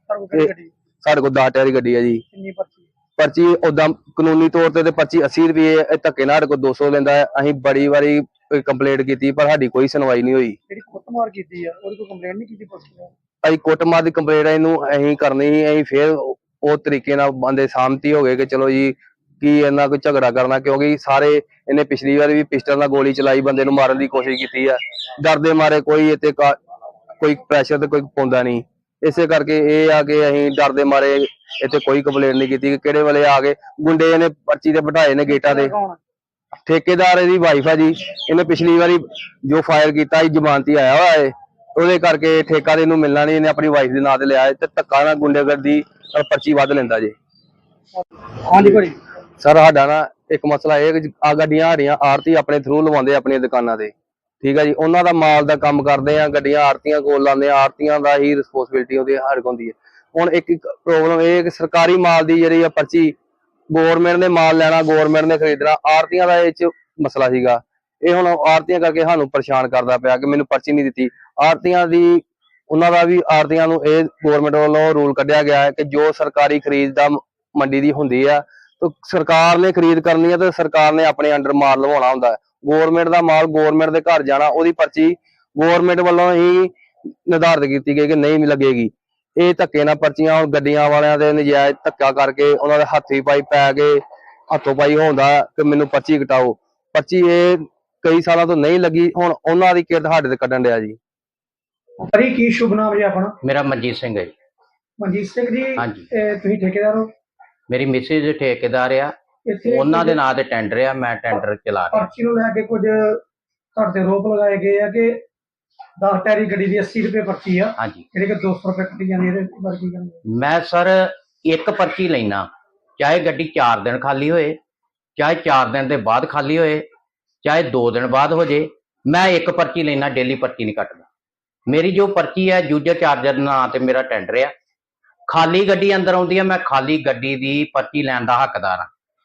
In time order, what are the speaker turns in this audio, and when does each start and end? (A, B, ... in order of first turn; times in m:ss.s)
0:00.1-0:00.7 A
0:01.0-0:02.2 B
0:02.3-0:02.9 A
0:03.2-0:10.6 B
0:10.7-0:13.1 A
0:13.4-0:26.6 B
0:27.2-0:35.7 B
0:35.3-0:36.0 A
0:36.7-0:47.1 B
0:48.0-0:49.0 A
0:49.4-1:03.2 B
1:03.7-1:26.7 B
1:27.3-1:41.0 B
1:42.0-1:43.3 A
1:43.4-1:44.3 C
1:45.0-1:47.1 A
1:45.8-1:46.1 C
1:47.7-1:49.1 C
1:49.5-1:50.2 A
1:49.7-1:52.1 C
1:51.9-1:53.2 A
1:53.8-1:55.2 A
1:56.0-2:00.2 A
1:57.8-1:58.0 C
2:00.4-2:02.5 C
2:03.0-2:04.6 C
2:05.2-2:06.9 C
2:07.4-2:11.0 C
2:11.7-2:14.5 C
2:15.3-2:18.9 C